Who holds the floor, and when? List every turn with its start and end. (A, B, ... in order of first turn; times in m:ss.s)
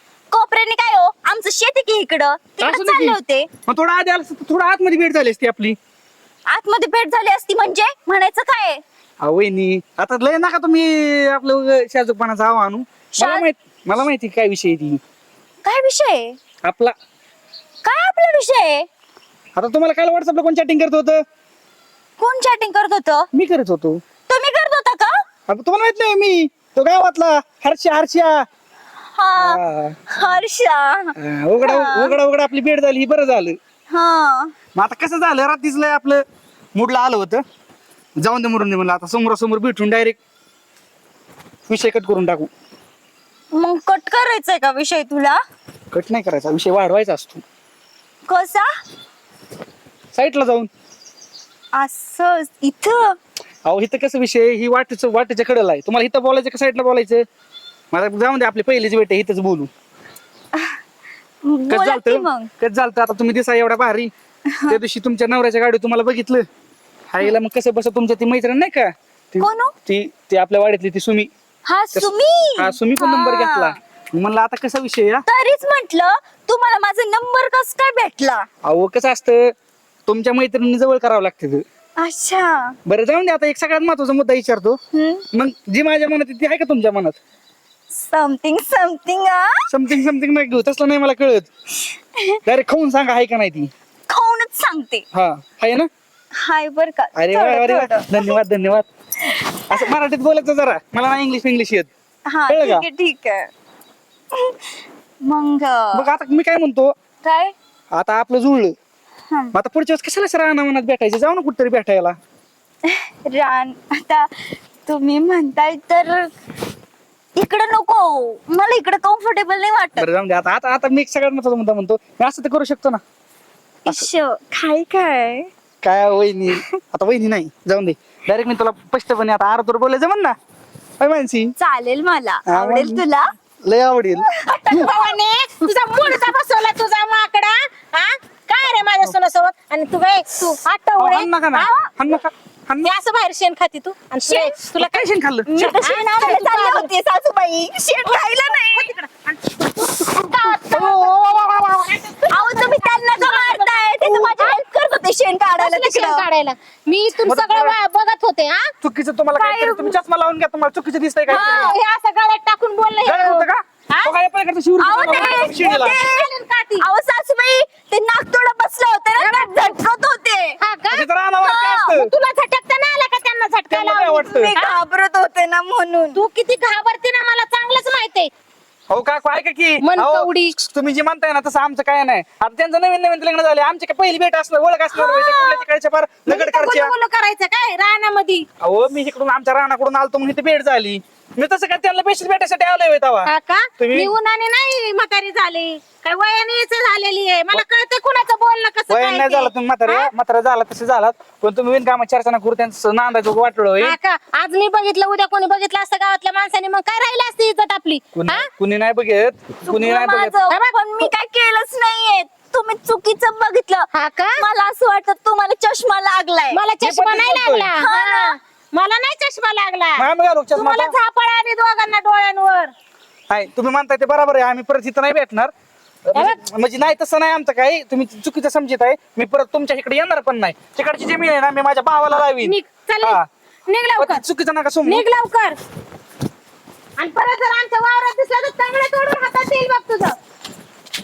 0:00.3-0:03.5 A
0:02.6-0:05.8 B
0:06.5-0:08.8 A
0:09.2-0:15.0 B
0:13.2-0:13.4 A
0:15.6-0:16.4 A
0:16.6-0:16.9 B
0:17.8-0:18.9 A
0:19.6-0:21.2 B
0:22.2-0:23.3 A
0:23.3-0:24.0 B
0:24.3-0:25.2 A
0:25.5-0:28.4 B
0:29.2-0:29.6 A
0:29.4-0:30.1 B
0:30.1-0:32.2 A
0:31.2-0:33.6 B
0:33.9-0:34.5 A
0:34.8-0:36.2 B
0:36.7-0:37.4 B
0:38.2-0:40.2 B
0:41.7-0:42.5 B
0:43.5-0:45.4 A
0:45.9-0:47.4 B
0:48.3-0:48.7 A
0:50.1-0:50.7 B
0:51.7-0:53.2 A
0:53.6-0:57.2 B
0:57.9-0:59.7 B
1:01.4-1:02.5 A
1:01.7-1:04.1 B
1:04.5-1:04.8 A
1:04.7-1:06.4 B
1:07.1-1:11.3 B
1:09.4-1:09.7 A
1:11.6-1:13.8 A
1:11.9-1:15.2 B
1:15.2-1:18.5 A
1:18.6-1:19.5 B
1:20.1-1:21.6 B
1:22.0-1:22.8 A
1:22.8-1:24.8 B
1:24.9-1:25.2 A
1:25.3-1:27.2 B
1:27.9-1:29.6 A
1:29.7-1:31.5 B
1:32.4-1:33.7 B
1:34.1-1:35.0 A
1:35.1-1:35.9 B
1:36.3-1:38.4 A
1:37.1-1:38.8 B
1:39.2-1:39.6 A
1:39.7-1:41.9 B
1:42.3-1:43.5 A
1:42.5-1:42.8 B
1:45.2-1:46.0 A
1:45.9-1:46.9 B
1:47.2-1:47.5 A
1:47.9-1:48.7 B
1:49.5-1:52.2 B
1:52.8-1:56.3 A
1:57.4-2:00.1 A
2:00.0-2:03.0 B
2:03.8-2:05.5 A
2:05.8-2:10.4 B
2:11.0-2:11.5 B
2:11.6-2:13.3 A
2:12.5-2:13.0 B
2:13.6-2:14.3 B
2:14.3-2:15.1 A
2:14.6-2:21.7 C
2:21.0-2:22.9 B
2:22.8-2:26.9 C
2:24.3-2:25.6 B
2:25.5-2:28.9 A
2:28.0-2:34.6 C
2:30.7-2:31.1 B
2:32.3-2:36.3 A
2:35.6-2:38.7 C
2:37.2-2:37.7 B
2:38.8-2:41.7 B
2:39.4-2:40.0 C
2:41.3-2:44.1 C
2:41.3-2:41.7 A
2:43.0-2:46.0 B
2:44.8-2:50.6 A
2:44.9-2:46.8 C
2:49.2-2:49.8 C
2:50.6-2:51.1 C
2:50.9-2:52.1 B
2:51.4-2:51.9 A
2:51.9-2:54.8 C
2:53.7-2:54.5 B
2:54.3-2:56.2 A
2:56.1-2:58.3 C
2:58.9-3:06.9 B
2:59.8-3:00.6 C
3:04.9-3:05.6 C
3:06.2-3:08.4 C
3:08.6-3:14.1 B
3:13.2-3:20.1 C
3:18.9-3:24.0 B
3:23.8-3:28.5 C
3:28.1-3:30.4 B
3:29.6-3:36.6 A
3:30.5-3:31.1 C
3:33.9-3:34.4 C
3:36.5-3:42.7 C
3:36.8-3:37.7 B
3:37.8-3:38.4 A
3:40.0-3:40.9 B
3:43.3-3:45.5 B
3:46.1-3:53.2 B
3:46.1-3:46.4 C
3:52.1-3:54.2 C
3:54.0-3:55.1 B
3:54.8-3:55.6 C
3:57.0-4:00.2 C